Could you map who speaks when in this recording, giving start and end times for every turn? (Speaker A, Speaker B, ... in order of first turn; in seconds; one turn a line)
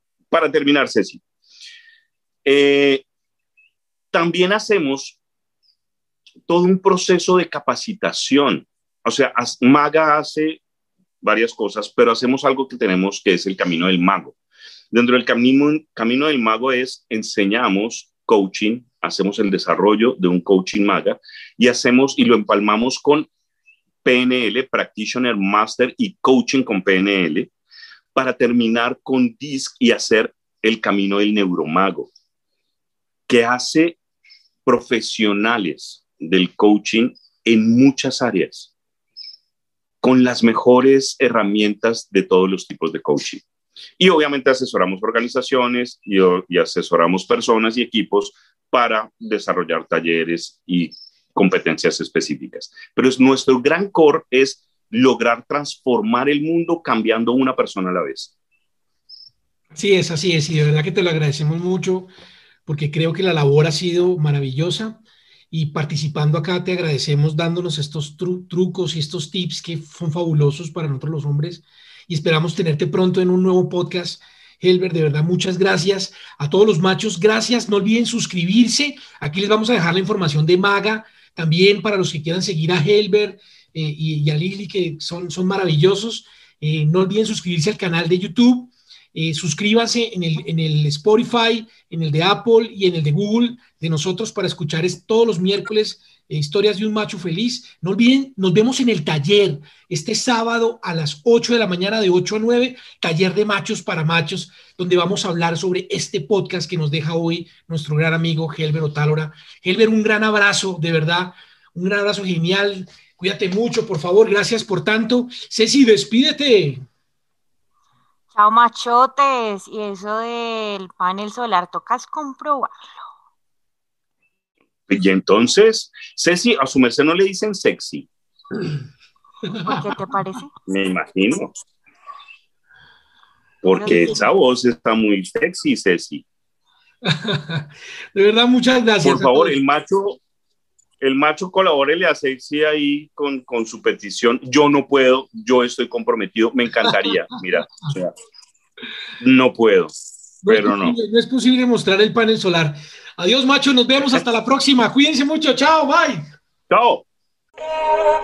Speaker A: 0.3-1.2
Speaker A: 2.4-3.0
Speaker A: 4.1-5.2
Speaker A: 6.5-10.6
Speaker A: 11.2-14.3
Speaker A: 14.9-23.3
Speaker A: 24.0-27.5
Speaker A: 28.1-32.1
Speaker A: 33.3-34.0
Speaker A: 34.6-38.7
Speaker A: 40.0-43.4
Speaker A: 44.0-58.3
Speaker B: 59.7-62.1
Speaker B: 62.6-65.0
Speaker B: 65.5-116.8
Speaker C: 118.3-122.8
Speaker A: 124.9-128.1
Speaker C: 129.6-130.5
Speaker A: 130.7-131.5
Speaker A: 133.6-136.2
Speaker C: 133.7-134.2
Speaker B: 137.0-139.6
Speaker A: 139.0-140.2
Speaker A: 141.0-148.1
Speaker A: 149.2-149.9
Speaker B: 150.4-156.2
Speaker A: 150.4-150.9
Speaker A: 156.7-157.0